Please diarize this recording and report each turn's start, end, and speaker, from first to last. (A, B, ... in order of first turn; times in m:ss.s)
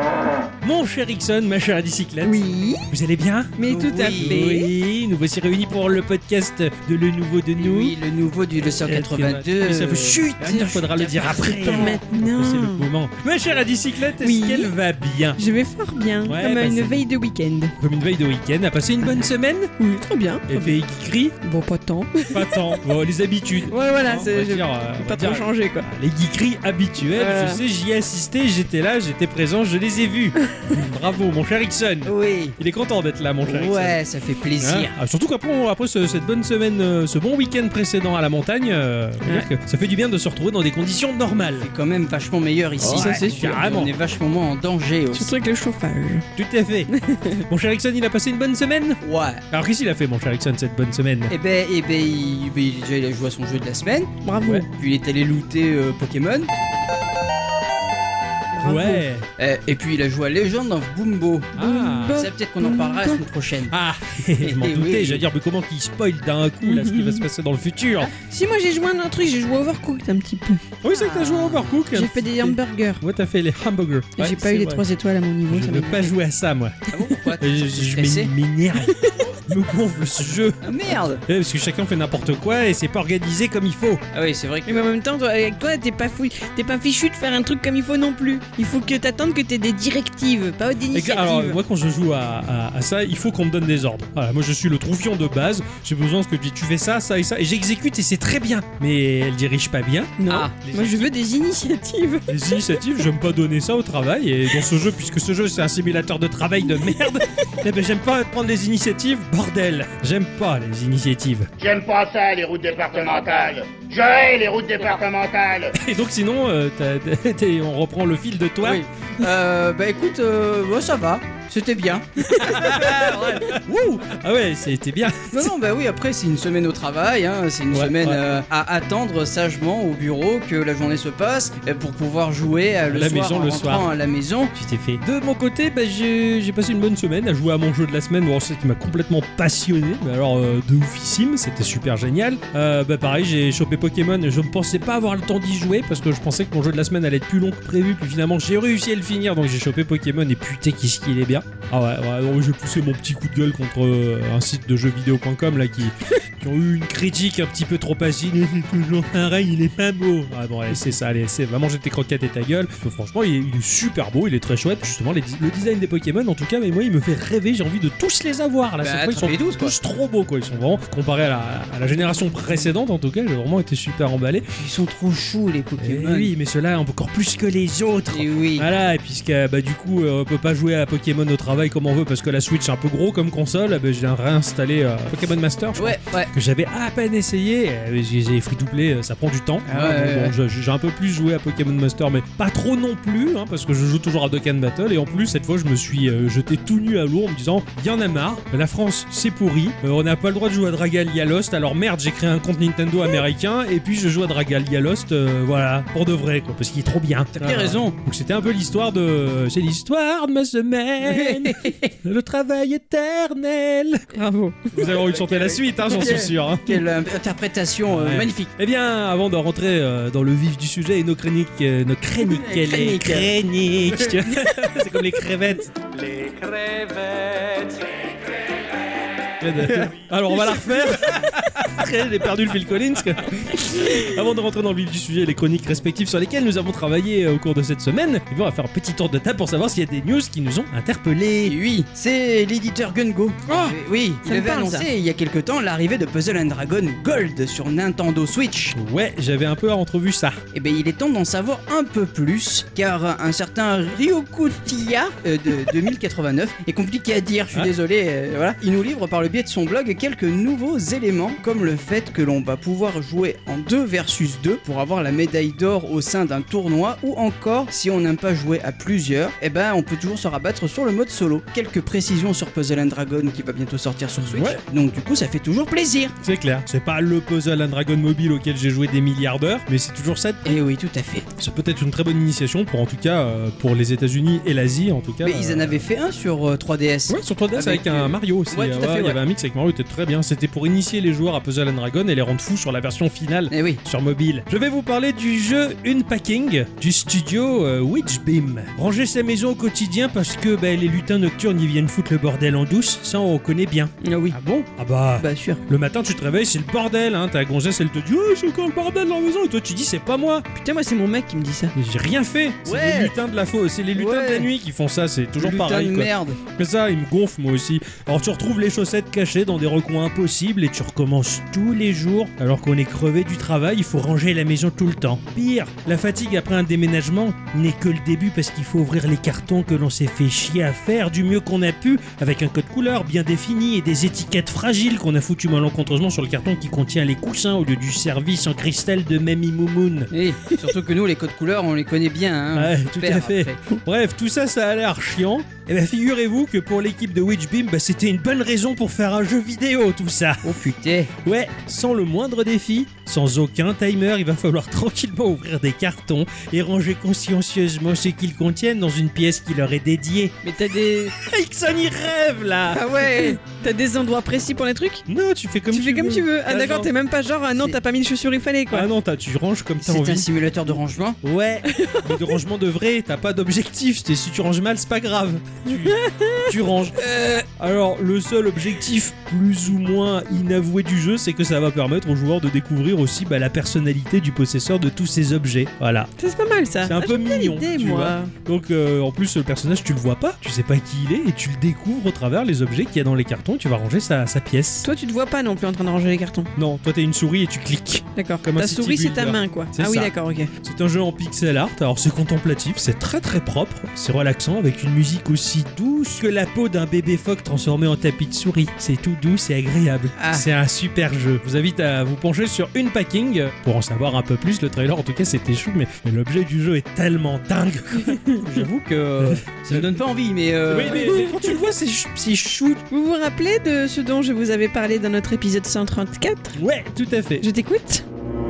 0:00.6-0:08.0 A
0:02.2-0:02.9 B
0:03.6-0:04.7 B
0:03.7-0:04.4 C
0:07.6-0:12.0 C
0:08.7-0:15.4 A
0:11.5-0:12.8 B
0:14.2-0:14.7 B
0:15.4-0:17.7 B
0:16.2-0:17.0 A
0:17.8-0:19.7 A
0:19.8-0:20.8 B
0:20.5-0:21.3 A
0:21.4-0:22.8 B
0:22.3-0:34.0 A
0:23.7-0:25.9 B
0:27.1-0:27.6 B
0:30.5-0:30.8 B
0:32.0-0:32.6 C
0:33.4-0:34.9 C
0:34.6-0:41.7 A
0:39.2-0:39.5 B
0:41.6-0:45.3 C
0:42.8-0:43.9 A
0:42.8-0:43.3 B
0:45.1-0:46.3 B
0:46.4-0:46.9 A
0:46.9-0:47.4 B
0:47.4-0:51.3 A
0:49.0-0:49.4 C
0:51.3-0:56.5 C
0:54.2-0:54.7 B
0:58.5-0:59.0 B
0:58.6-0:59.2 A
0:59.4-1:01.6 C
1:01.6-1:02.3 A
1:01.6-1:03.2 B
1:02.1-1:03.7 C
1:03.7-1:08.1 A
1:04.4-1:05.2 C
1:06.6-1:07.2 B
1:08.1-1:13.0 B
1:10.8-1:14.8 A
1:14.2-1:16.1 B
1:15.5-1:16.8 A
1:16.9-1:18.3 C
1:17.4-1:24.0 A
1:18.8-1:19.3 B
1:20.6-1:21.2 C
1:24.1-1:24.9 C
1:24.6-1:31.6 B
1:30.9-1:41.1 A
1:40.2-1:43.1 B
1:42.3-1:51.5 A
1:46.8-1:47.5 B
1:51.6-1:55.8 D
1:52.9-1:53.5 C
1:55.8-1:58.8 A
1:58.6-2:03.5 C
2:02.2-2:02.7 B
2:02.4-2:05.5 A
2:05.3-2:14.5 C
2:07.7-2:08.2 A
2:12.9-2:13.9 A
2:14.5-2:54.4 A
2:48.8-2:49.7 C
2:54.6-2:56.3 C
2:55.8-3:34.1 A
2:58.1-2:58.7 C
3:05.8-3:06.3 C
3:09.7-3:10.3 C
3:27.3-3:28.0 C
3:31.0-3:31.9 C
3:34.1-3:34.7 B
3:34.7-3:36.8 A
3:34.7-3:38.5 C
3:37.9-3:45.7 A
3:42.2-3:43.3 C
3:45.9-3:48.1 E
3:49.4-4:01.6 A
3:49.6-3:49.9 C
4:01.4-4:08.7 C
4:03.5-4:03.7 A
4:04.2-4:04.8 B
4:08.7-4:10.4 A
4:10.5-4:36.2 C
4:34.2-4:34.6 A
4:36.2-4:40.6 A
4:40.4-4:41.3 C
4:41.3-4:45.8 A
4:45.2-4:49.2 C
4:47.1-5:03.9 A
4:53.5-4:53.8 C
5:04.0-5:04.4 B
5:04.3-5:04.7 C
5:04.8-5:10.4 A
5:05.2-5:05.6 B
5:10.5-5:11.7 B
5:11.7-5:40.1 A
5:12.6-5:13.1 C
5:14.0-5:14.5 C
5:15.4-5:16.4 C
5:40.1-5:43.6 C
5:42.5-5:50.6 A
5:50.4-5:51.1 C
5:51.2-6:00.4 A
6:00.4-6:01.1 B
6:01.0-6:03.0 A
6:02.7-6:03.4 C
6:03.0-6:05.0 B
6:05.1-6:06.9 A
6:05.7-6:08.9 B
6:08.7-6:10.3 A
6:09.8-6:11.2 C
6:11.2-6:17.0 A
6:11.6-6:12.4 B
6:15.6-6:16.5 B
6:17.0-6:17.4 C
6:17.5-6:26.1 A
6:26.2-6:28.3 B
6:26.8-6:34.9 A
6:34.8-6:36.5 B
6:36.6-6:58.6 A
6:38.2-6:40.5 B
6:50.2-6:50.5 C
6:58.1-6:58.4 B
6:58.4-7:01.2 C
6:59.2-6:59.9 A
7:00.6-7:02.8 A
7:01.0-7:01.5 B
7:02.9-7:06.6 B
7:06.5-7:07.5 A
7:07.4-7:08.0 B